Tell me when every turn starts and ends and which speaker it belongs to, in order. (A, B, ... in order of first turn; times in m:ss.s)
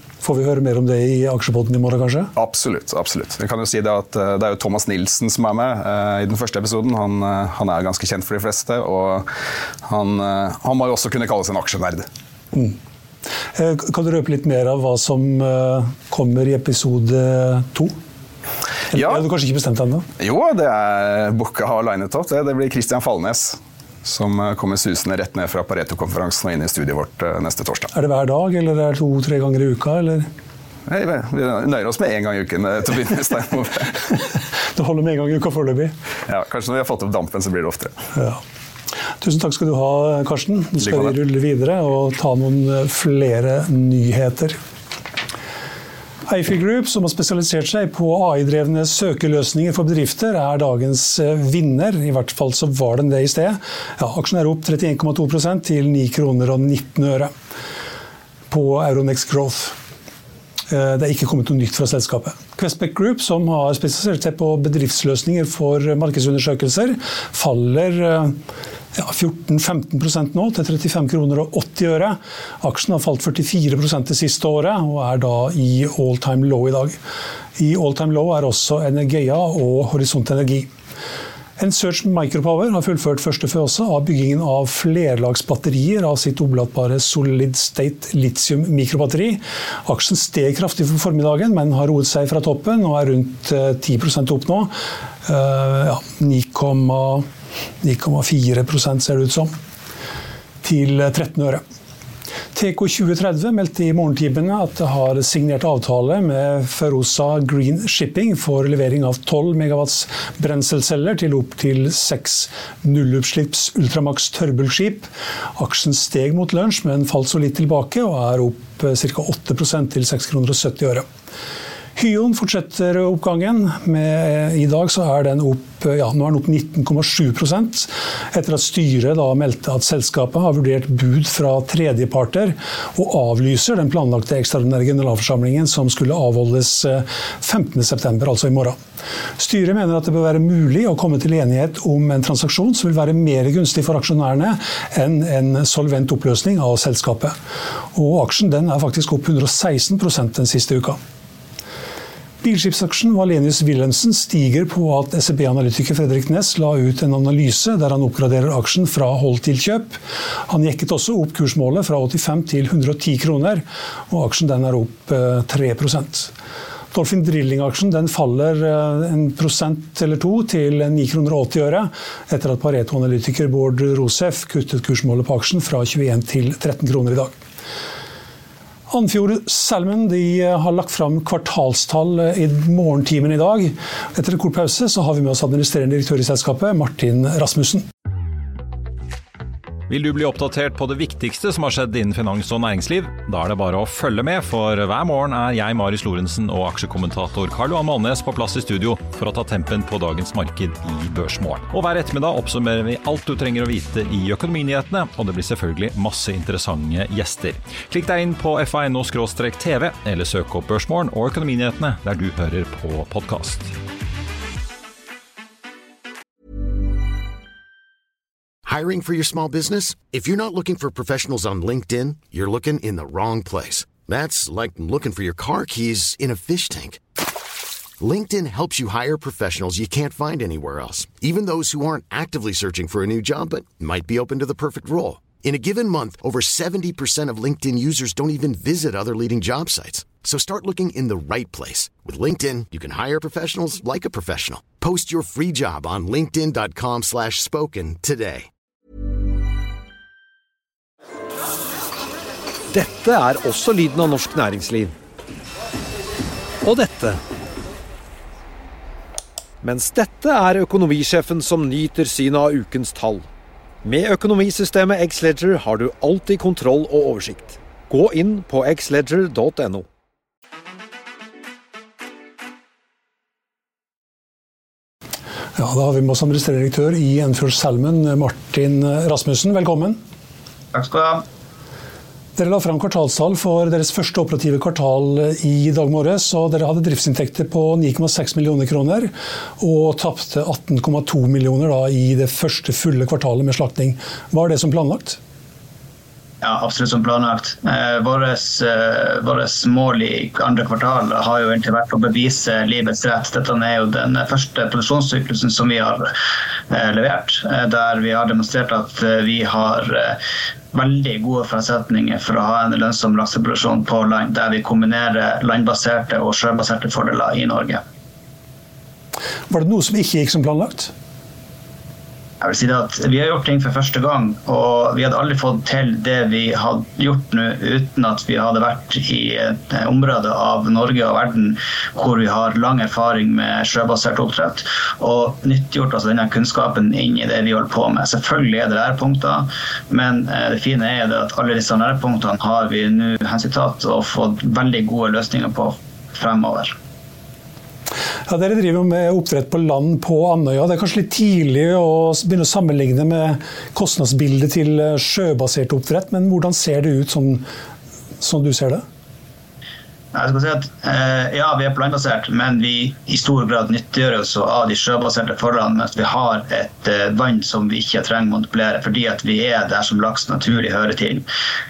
0:00.2-0:02.3 A
0:02.3-0:09.3 B
0:09.8-0:12.1 B
0:13.5-0:17.9 A
0:18.9-0:20.0 A
0:18.9-0:19.2 B
0:20.2-0:27.9 B
0:27.9-0:30.3 A
0:30.9-0:34.0 B
0:34.7-0:35.9 A
0:36.3-0:37.9 B
0:38.1-0:38.4 A
0:39.2-0:44.6 A
0:40.8-0:41.1 B
0:46.3-0:57.3 A
0:58.5-0:59.8 A
1:00.7-1:08.4 A
1:08.9-1:17.0 A
1:17.6-1:20.7 A
1:21.6-1:34.7 A
1:35.2-1:37.2 A
1:37.8-1:39.5 A
1:40.6-1:41.6 A
1:42.5-2:01.0 A
2:02.0-2:18.8 A
2:19.4-2:27.3 A
2:27.9-2:31.0 A
2:32.4-2:46.3 A
2:46.9-2:57.3 A
2:58.9-3:07.8 A
3:09.9-3:33.7 C
3:38.6-3:47.0 D
3:48.0-4:08.5 D
4:12.7-4:14.9 E
4:16.6-4:17.2 E
4:19.6-4:23.2 E
4:23.8-4:29.8 E
4:35.6-4:40.0 A
4:40.7-4:41.2 F
4:42.4-4:55.2 A
4:56.4-5:06.1 F
5:06.7-5:10.2 F
5:10.7-5:17.8 F
5:19.5-5:20.9 A
5:22.4-5:46.8 F
5:48.3-5:57.4 A
5:58.2-5:58.8 A
6:00.1-6:11.2 F